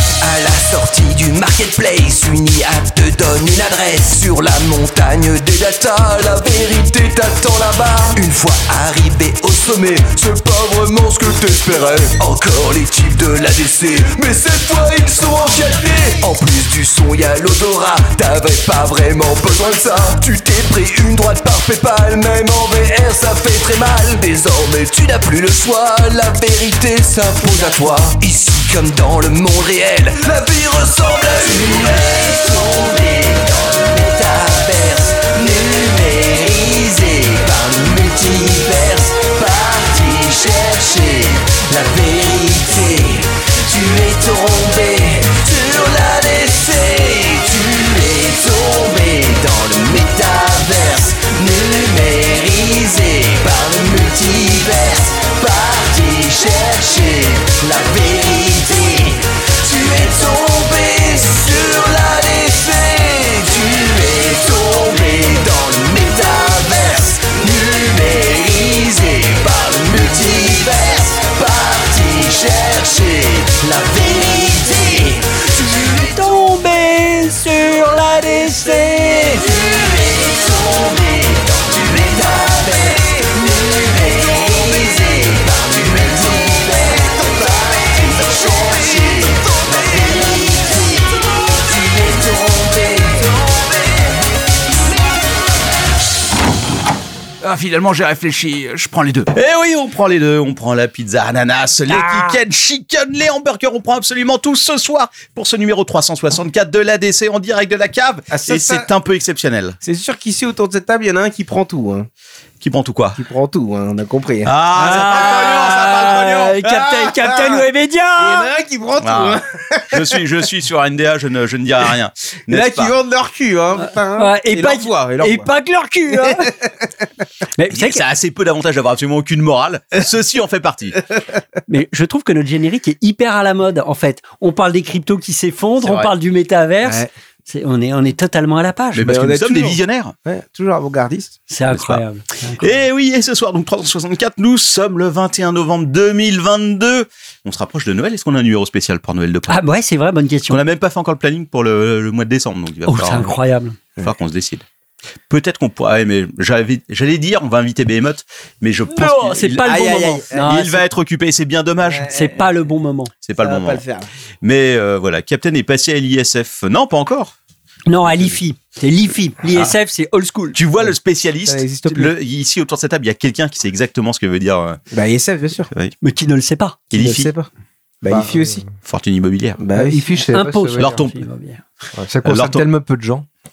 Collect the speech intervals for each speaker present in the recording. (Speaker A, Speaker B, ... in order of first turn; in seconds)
Speaker A: 0.2-76.2, 79.3-94.1
Speaker B: 75.9-79.6, 101.9-102.4, 114.7-118.5, 123.8-126.5, 127.6-128.0, 131.7-139.1, 141.5-142.8, 149.5-150.6, 152.8-153.8, 158.9-160.8, 162.0-163.1, 167.9-170.6, 176.0-176.8, 180.3-181.6
Speaker C: 97.4-109.8, 112.6-113.2, 114.4-116.6, 119.0-122.9, 127.7-131.0, 135.8-136.1, 138.9-140.1, 141.7-142.0, 142.6-149.6, 150.5-153.4, 154.0-154.6, 155.3-162.1, 163.2-163.8, 164.4-167.3, 170.5-174.8, 176.9-177.3, 178.8-179.6, 180.8-181.2, 182.2-182.7
Speaker D: 108.3-108.8, 109.8-112.1, 113.2-115.4, 116.8-117.6, 118.2-120.2, 122.5-125.5, 126.1-126.7, 136.8-137.1, 139.0-141.4, 159.6-160.6, 161.8-162.4, 163.4-164.1, 171.4-172.1, 174.9-175.7, 176.9-177.5, 178.0-178.6, 179.6-180.1
Speaker E: 178.1-178.6, 179.7-181.0, 181.9-183.3